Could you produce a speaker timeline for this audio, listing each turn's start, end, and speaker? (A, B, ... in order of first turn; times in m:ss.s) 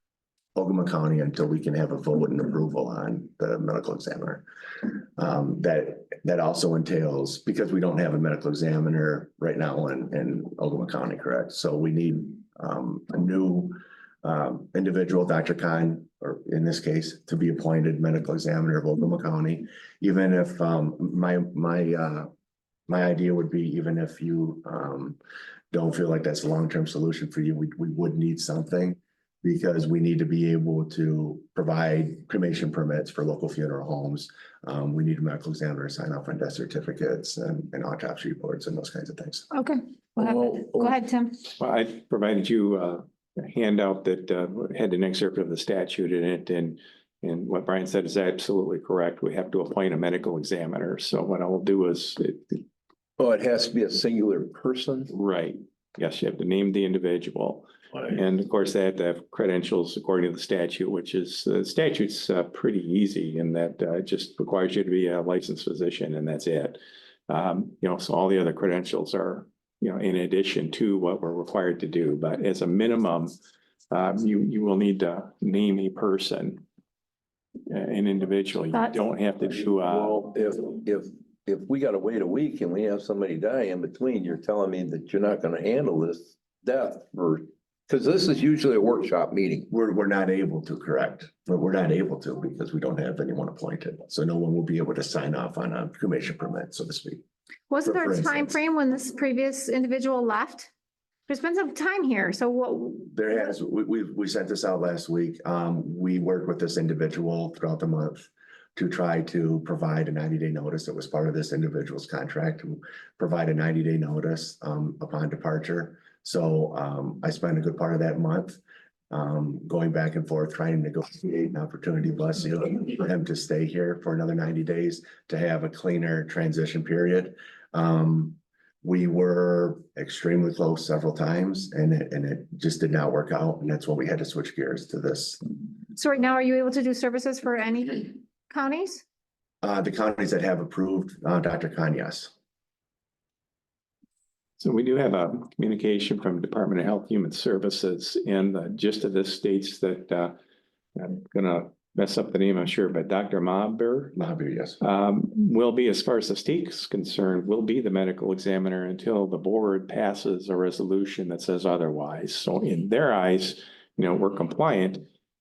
0:00.5-0:22.3 A
0:22.9-0:25.2 A
0:25.7-0:39.5 A
0:39.5-0:41.4 B
0:40.2-0:41.0 C
0:41.6-0:52.6 D
0:53.2-0:55.1 C
0:55.1-1:06.8 D
1:07.3-1:13.4 D
1:13.9-1:16.6 D
1:17.7-1:20.2 D
1:19.7-1:29.7 C
1:29.7-1:37.2 A
1:37.7-1:40.7 B
1:37.8-1:38.6 A
1:41.3-1:43.4 B
1:43.1-1:58.6 A
1:59.1-2:15.4 A
2:15.9-2:19.0 B
2:19.6-2:22.3 A
2:24.6-2:30.3 D
2:31.0-2:34.1 D
2:34.1-2:34.8 A
2:34.8-2:45.0 D